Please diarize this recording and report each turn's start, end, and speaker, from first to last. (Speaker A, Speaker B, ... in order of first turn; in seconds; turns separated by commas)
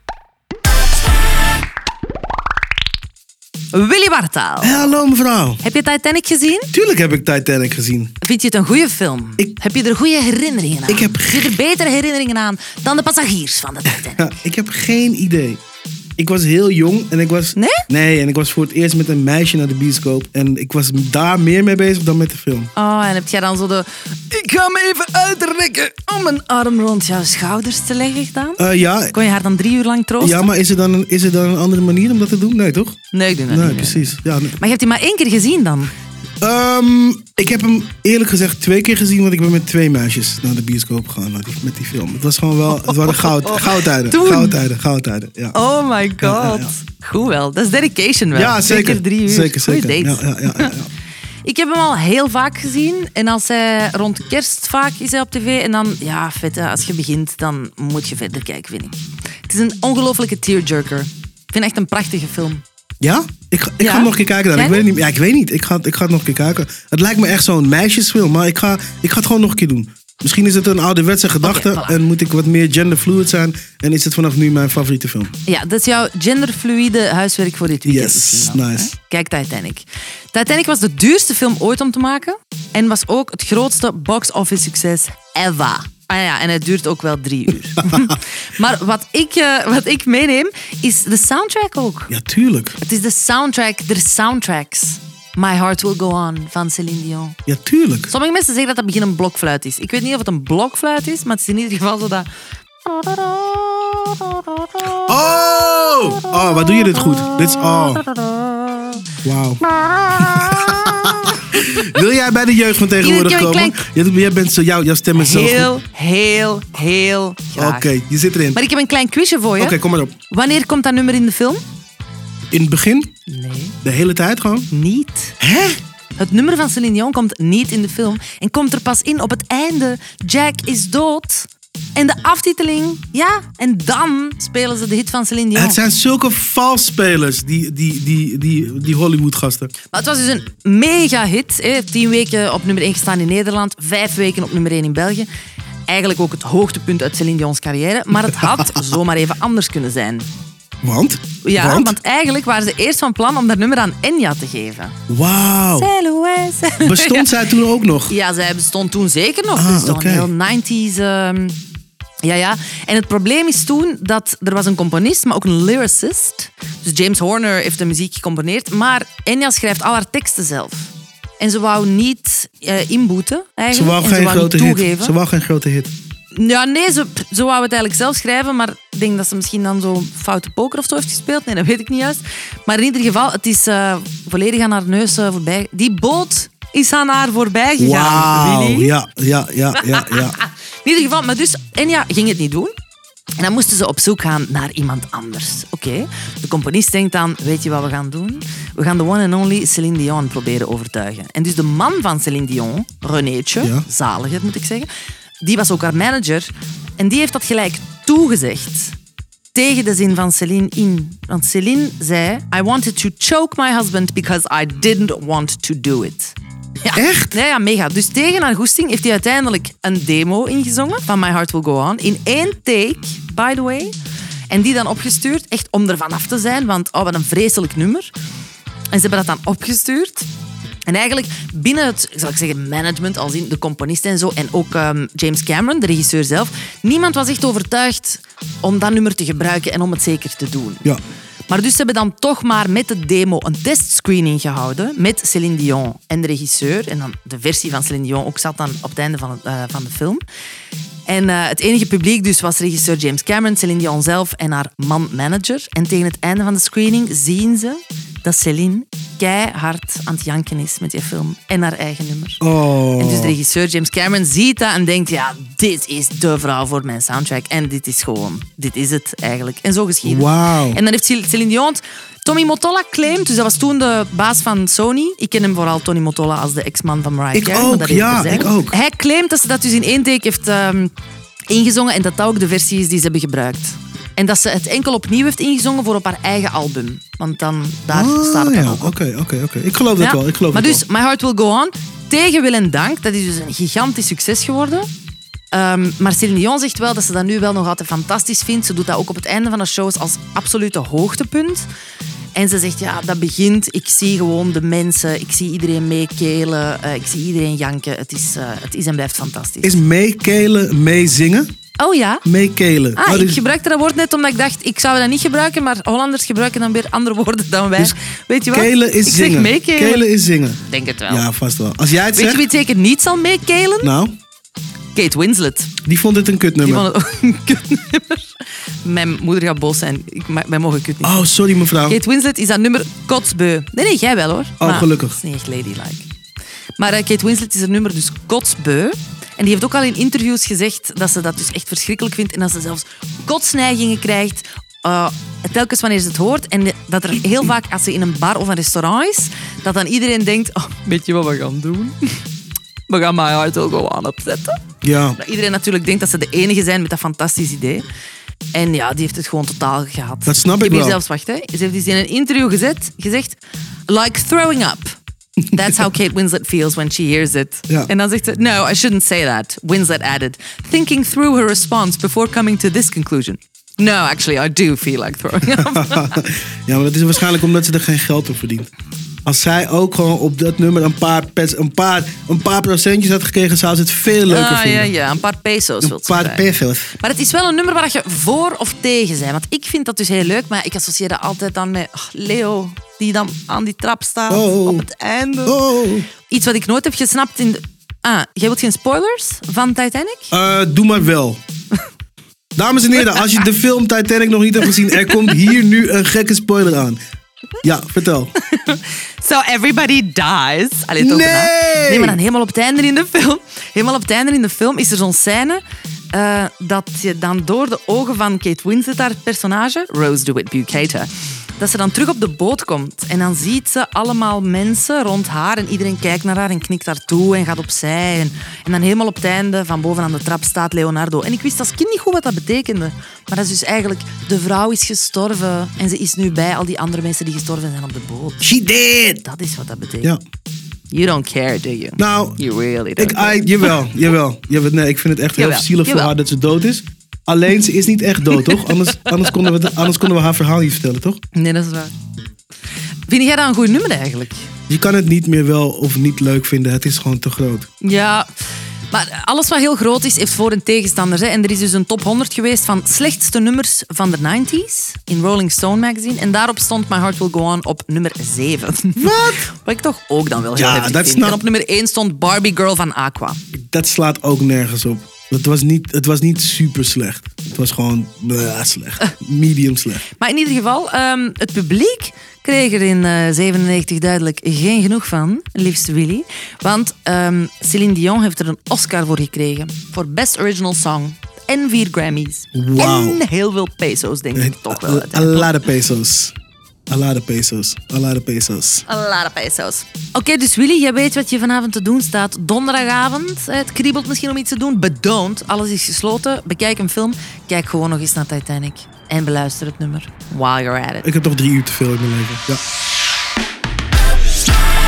Speaker A: 3.7-5.0, Speaker B: 4.6-5.6, Speaker A: 5.6-6.7, Speaker B: 6.7-8.1, Speaker A: 8.2-14.3, Speaker B: 10.9-11.5, Speaker B: 13.9-15.6, Speaker B: 16.2-22.7, Speaker A: 17.5-17.8, Speaker A: 22.7-30.4, Speaker B: 28.6-29.1, Speaker B: 30.2-33.0, Speaker A: 33.1-35.9, Speaker B: 33.5-34.6, Speaker B: 36.4-45.6, Speaker A: 42.8-44.6, Speaker A: 45.5-50.7, Speaker B: 46.2-46.7, Speaker B: 48.3-50.9, Speaker A: 51.4-62.6, Speaker B: 63.0-75.3, Speaker A: 63.8-64.8, Speaker A: 71.4-71.9, Speaker A: 75.5-92.1, Speaker B: 77.8-78.9, Speaker B: 92.1-92.8, Speaker A: 92.8-97.4, Speaker B: 97.5-98.1, Speaker A: 98.1-102.3, Speaker A: 102.8-105.1, Speaker B: 105.0-108.0, Speaker A: 106.4-109.0, Speaker B: 109.2-115.7, Speaker A: 109.7-112.0, Speaker A: 113.0-113.8, Speaker A: 115.1-117.9, Speaker B: 117.5-118.6, Speaker A: 118.5-119.8, Speaker B: 119.6-120.1, Speaker A: 120.3-121.6, Speaker B: 122.5-123.1, Speaker A: 123.3-123.7, Speaker B: 123.8-124.7, Speaker A: 124.7-125.4, Speaker B: 125.4-125.8, Speaker A: 126.2-135.8, Speaker B: 135.5-139.7, Speaker A: 139.9-145.3, Speaker A: 145.9-150.3, Speaker B: 148.3-148.8, Speaker B: 150.8-151.9, Speaker A: 151.4-154.9, Speaker B: 155.1-155.9, Speaker A: 155.8-157.3, Speaker B: 156.8-158.1, Speaker A: 158.1-161.6, Speaker B: 159.6-160.3, Speaker A: 162.2-175.1, Speaker B: 173.7-175.9, Speaker A: 176.3-188.9, Speaker B: 187.8-190.4, Speaker A: 189.7-192.7, Speaker A: 193.4-204.9, Speaker B: 203.6-203.8, Speaker A: 205.4-208.9, Speaker A: 209.5-223.9, Speaker B: 216.9-217.4, Speaker A: 224.5-228.1, Speaker A: 228.9-230.3, Speaker A: 230.9-240.9, Speaker A: 241.5-250.2, Speaker A: 251.1-262.4, Speaker B: 262.4-263.4, Speaker A: 263.0-280.9, Speaker B: 270.0-270.8, Speaker B: 277.3-278.8, Speaker A: 281.5-288.9, Speaker B: 287.9-290.8, Speaker A: 290.0-294.9, Speaker A: 295.5-301.6, Speaker A: 302.3-309.8, Speaker B: 309.6-311.5, Speaker A: 311.8-312.2, Speaker B: 312.2-313.4, Speaker A: 312.9-320.1, Speaker B: 318.5-322.4, Speaker A: 320.6-321.3, Speaker A: 322.1-323.9, Speaker B: 323.8-324.1, Speaker A: 324.9-325.7, Speaker B: 325.8-326.9, Speaker A: 326.6-328.2, Speaker A: 328.8-331.3, Speaker B: 331.0-332.0, Speaker A: 331.8-336.1, Speaker B: 334.6-335.2, Speaker A: 336.8-351.9, Speaker A: 352.9-354.6, Speaker B: 354.8-355.2, Speaker A: 355.2-357.8, Speaker A: 358.5-363.4, Speaker B: 360.2-361.0, Speaker A: 363.9-364.9, Speaker A: 365.5-376.2, Speaker B: 375.5-378.7, Speaker B: 379.2-384.9, Speaker A: 384.3-395.6, Speaker B: 385.8-386.9, Speaker B: 394.3-394.8, Speaker B: 395.4-396.1, Speaker A: 396.2-400.3, Speaker B: 400.3-401.4, Speaker B: 402.6-407.0, Speaker A: 402.9-403.4, Speaker A: 404.6-405.5, Speaker B: 407.6-408.3, Speaker A: 408.4-415.6, Speaker B: 411.0-412.2, Speaker A: 416.1-438.5, Speaker B: 438.4-439.2, Speaker A: 439.2-440.1, Speaker A: 440.9-443.8, Speaker B: 442.0-442.4, Speaker B: 443.0-451.2, Speaker A: 445.4-446.1, Speaker A: 448.3-449.3, Speaker A: 451.3-451.9, Speaker A: 453.1-454.5, Speaker B: 454.7-457.7, Speaker A: 457.8-458.2, Speaker A: 458.9-473.4, Speaker B: 469.0-469.4, Speaker B: 470.6-471.4, Speaker B: 473.5-480.0, Speaker A: 480.1-495.5, Speaker B: 492.5-493.2, Speaker B: 494.3-496.3, Speaker B: 496.9-498.8, Speaker A: 498.9-511.1, Speaker B: 511.0-512.6